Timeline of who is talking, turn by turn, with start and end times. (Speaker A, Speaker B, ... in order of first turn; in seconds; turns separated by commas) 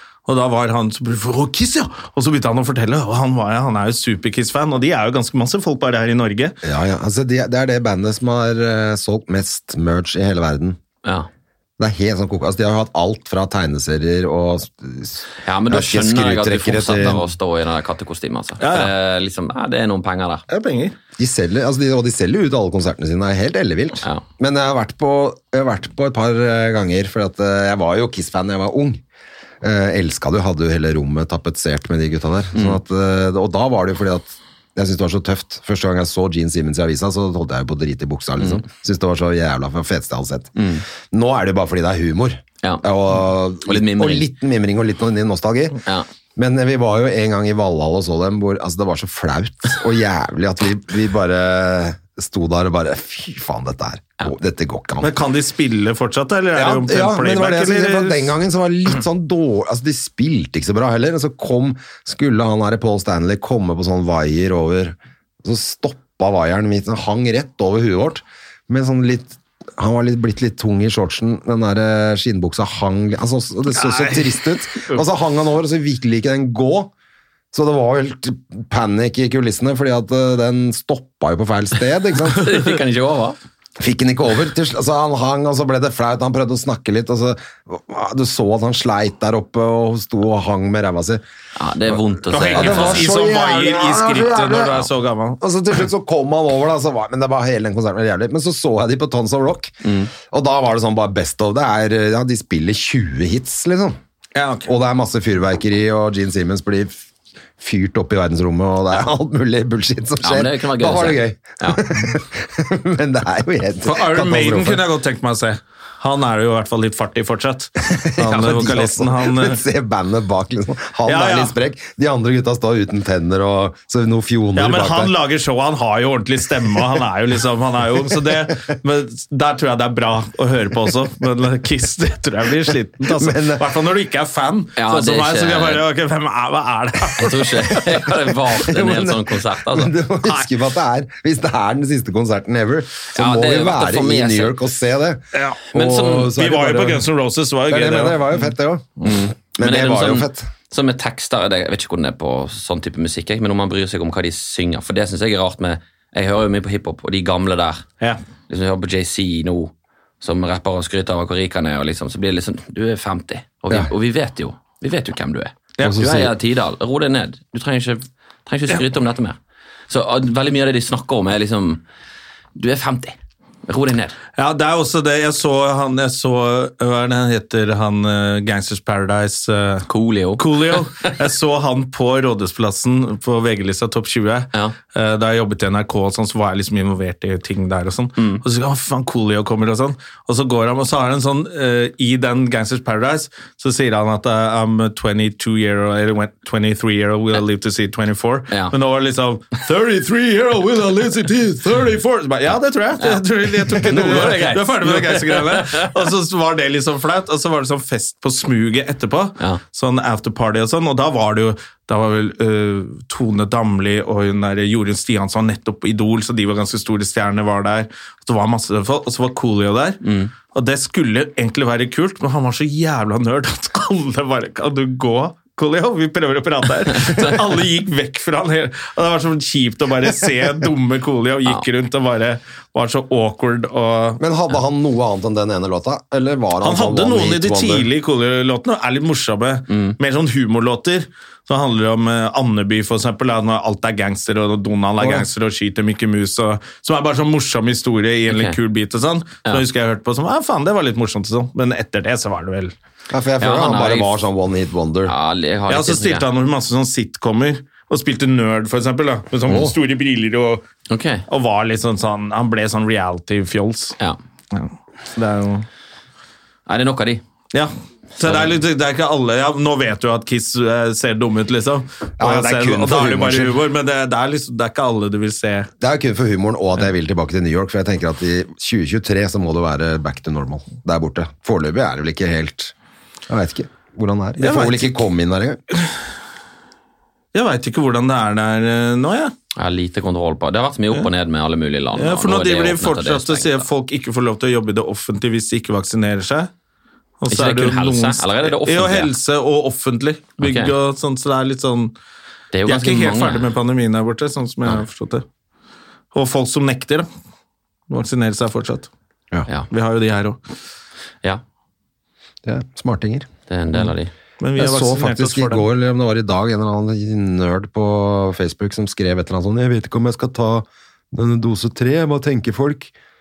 Speaker A: 0.2-6.6, Speaker B: 6.6-10.8, Speaker C: 11.0-11.3, Speaker B: 11.8-17.3, Speaker C: 15.4-20.4, Speaker A: 18.6-18.9, Speaker A: 20.5-20.9, Speaker B: 21.2-29.0, Speaker B: 29.6-45.8, Speaker C: 32.5-32.8, Speaker C: 40.5-40.8, Speaker C: 42.6-42.9, Speaker C: 43.6-44.3, Speaker B: 46.4-55.1, Speaker A: 55.0-58.4, Speaker B: 56.5-76.9, Speaker A: 73.7-75.0, Speaker B: 77.5-82.5, Speaker C: 82.3-83.4, Speaker B: 83.8-91.2, Speaker C: 91.5-93.1, Speaker A: 92.3-95.4, Speaker B: 92.5-94.8, Speaker B: 95.4-104.0, Speaker C: 99.8-100.1, Speaker A: 104.3-104.7, Speaker B: 104.7-107.0, Speaker B: 107.6-114.8, Speaker C: 110.2-111.8, Speaker A: 113.8-119.6, Speaker B: 117.8-125.1, Speaker A: 121.0-121.5, Speaker A: 124.5-137.9, Speaker B: 133.1-133.6, Speaker C: 134.8-135.8, Speaker C: 137.2-139.9, Speaker B: 138.5-147.1, Speaker A: 140.2-140.5, Speaker C: 143.1-144.6, Speaker A: 145.3-148.4, Speaker C: 145.7-146.3, Speaker B: 147.7-150.5, Speaker C: 149.0-157.8, Speaker C: 158.5-169.4, Speaker A: 165.8-166.0, Speaker B: 165.8-166.3, Speaker C: 169.9-171.8, Speaker C: 172.6-174.2, Speaker A: 174.4-234.2, Speaker C: 179.9-181.1, Speaker C: 188.2-188.4, Speaker C: 203.0-206.1, Speaker C: 220.0-220.3, Speaker C: 227.0-227.3, Speaker B: 234.2-237.9, Speaker A: 236.6-252.7, Speaker C: 239.7-239.9, Speaker B: 245.0-245.2, Speaker C: 248.3-248.6, Speaker B: 253.1-255.1, Speaker C: 253.4-254.2, Speaker C: 255.1-256.2, Speaker A: 255.7-260.6, Speaker B: 259.5-259.7, Speaker C: 260.9-261.2, Speaker A: 261.3-264.0, Speaker A: 264.5-265.6, Speaker C: 266.7-267.2, Speaker A: 267.5-275.7, Speaker C: 268.2-268.5, Speaker B: 272.2-273.6, Speaker B: 275.8-282.7, Speaker B: 283.3-285.6, Speaker A: 284.4-285.0, Speaker A: 287.3-289.3, Speaker C: 289.5-293.6, Speaker A: 291.9-296.5, Speaker A: 297.2-301.9, Speaker C: 297.3-299.1, Speaker C: 300.4-300.7, Speaker C: 302.5-303.5, Speaker A: 302.6-305.2, Speaker A: 306.1-307.1, Speaker A: 307.9-308.9, Speaker A: 309.7-310.4, Speaker B: 312.4-313.3, Speaker C: 313.5-314.1, Speaker A: 314.4-315.6, Speaker B: 314.6-322.9